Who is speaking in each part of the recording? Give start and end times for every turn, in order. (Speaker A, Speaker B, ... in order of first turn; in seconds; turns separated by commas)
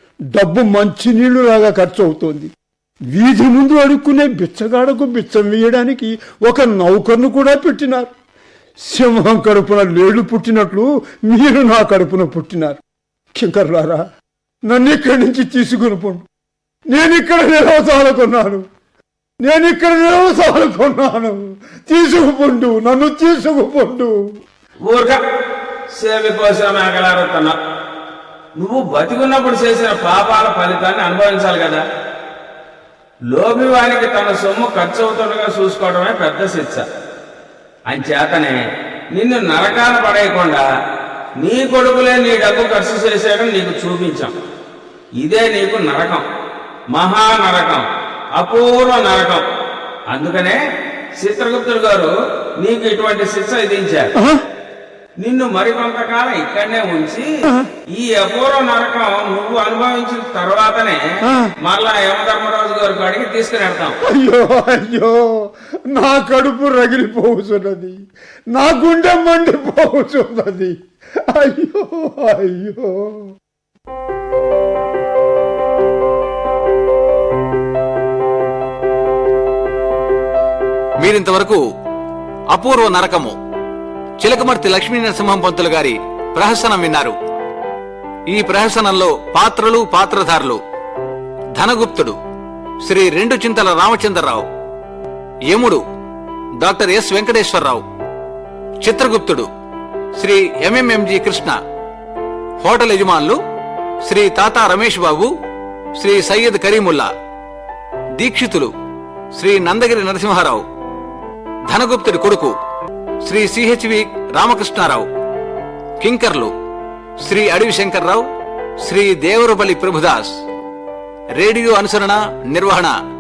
Speaker A: 0.3-2.5, Speaker A: 3.1-8.1, Speaker A: 8.9-12.8, Speaker A: 13.3-14.0, Speaker A: 14.7-16.2, Speaker A: 16.9-18.6, Speaker A: 19.4-24.1, Speaker B: 24.9-25.2, Speaker B: 26.0-27.6, Speaker B: 28.6-31.8, Speaker B: 33.3-36.9, Speaker B: 37.9-38.6, Speaker B: 39.2-40.6, Speaker B: 41.4-44.3, Speaker B: 45.2-46.2, Speaker B: 47.0-47.8, Speaker B: 48.4-49.4, Speaker B: 50.1-50.6, Speaker B: 51.2-54.1, Speaker A: 54.2-54.4, Speaker B: 55.2-57.3, Speaker B: 57.9-61.0, Speaker A: 61.2-61.5, Speaker B: 61.6-64.0, Speaker A: 64.0-65.2, Speaker A: 65.9-68.0, Speaker A: 68.5-70.8, Speaker A: 71.3-73.3, Speaker C: 81.0-81.6, Speaker C: 82.5-83.4, Speaker C: 84.2-87.2, Speaker C: 88.3-90.6, Speaker C: 91.6-92.2, Speaker C: 92.8-94.5, Speaker C: 95.5-95.8, Speaker C: 96.6-97.8, Speaker C: 98.8-99.5, Speaker C: 100.2-101.6, Speaker C: 102.6-103.4, Speaker C: 104.0-105.3, Speaker C: 106.0-107.1, Speaker C: 108.2-108.7, Speaker C: 109.4-110.6, Speaker C: 111.7-112.5, Speaker C: 113.2-115.1, Speaker C: 116.0-116.5, Speaker C: 117.2-118.3, Speaker C: 118.8-120.4, Speaker C: 121.4-123.0